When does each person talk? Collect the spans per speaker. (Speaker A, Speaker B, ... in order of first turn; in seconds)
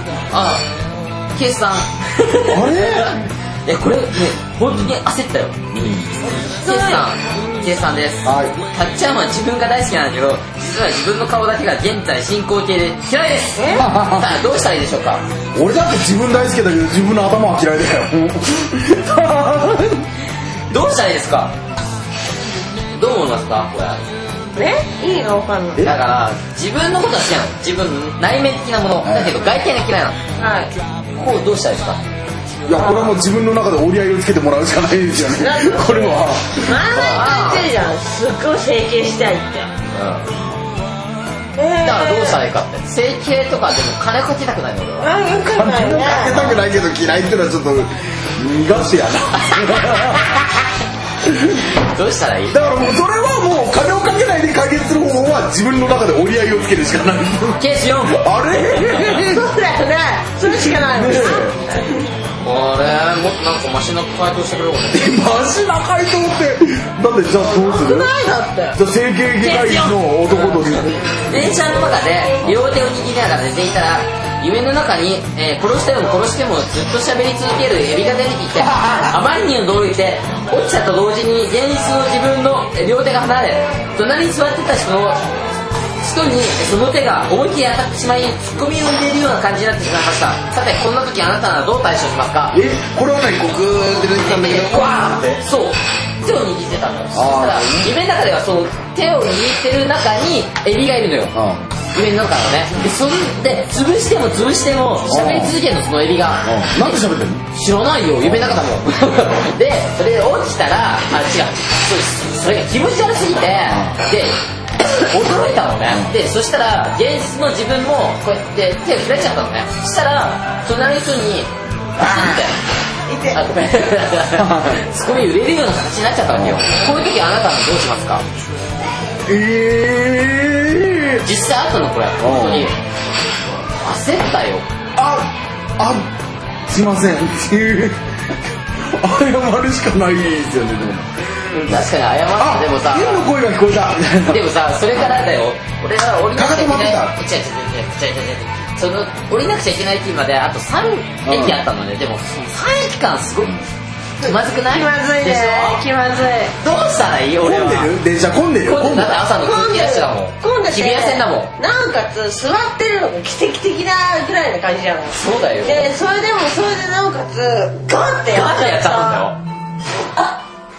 Speaker A: 0.3-0.7, 1.4-5.6, 6.4-15.2, 20.7-21.5, 22.9-24.0, 25.8-30.2, 31.2-32.0, 36.9-37.7, 39.9-40.3, 41.8-45.1, 49.5-50.2, 51.6-52.6, 57.6-58.3, 62.4-65.2, 69.4-85.2, 86.0-92.6, 94.2-101.3, 101.9-107.0, 107.5-114.4, 115.0-122.6, 123.3-128.2, 131.2-132.8, 133.8-134.7, 141.5-143.3, 144.3-153.6, 154.2-155.8, 156.6-158.0, 158.6-161.5, 165.1-165.9, 168.3-169.4
Speaker B: 2.5-3.2, 5.7-6.1, 8.2-8.6, 13.8-14.3, 15.6-20.1, 29.0-29.4, 32.7-37.3, 45.5-50.5, 51.2-51.6, 52.5-57.6, 58.1-59.5, 60.5-61.6, 64.9-68.1, 68.8-71.8, 78.6-79.1, 92.5-95.4, 97.1-97.9, 101.3-101.7, 105.1-105.6, 106.4-107.5, 108.2-108.6, 113.7-114.0, 115.9-116.1, 122.0-122.4, 124.4-124.8, 126.3-126.6, 129.3-131.2, 132.2-132.7, 135.0-136.1, 136.7-141.1, 142.4-145.2, 146.3-147.2, 151.2-151.6, 157.4-159.2
Speaker C: 6.4-7.7, 13.6-13.9, 24.6-25.9, 30.4-30.8, 32.7-33.2, 35.4-39.7, 41.6-42.4, 45.0-46.6, 58.7-62.1, 67.4-68.8, 69.5-69.8, 71.0-71.3, 123.1-123.4, 154.2-156.5, 159.3-169.3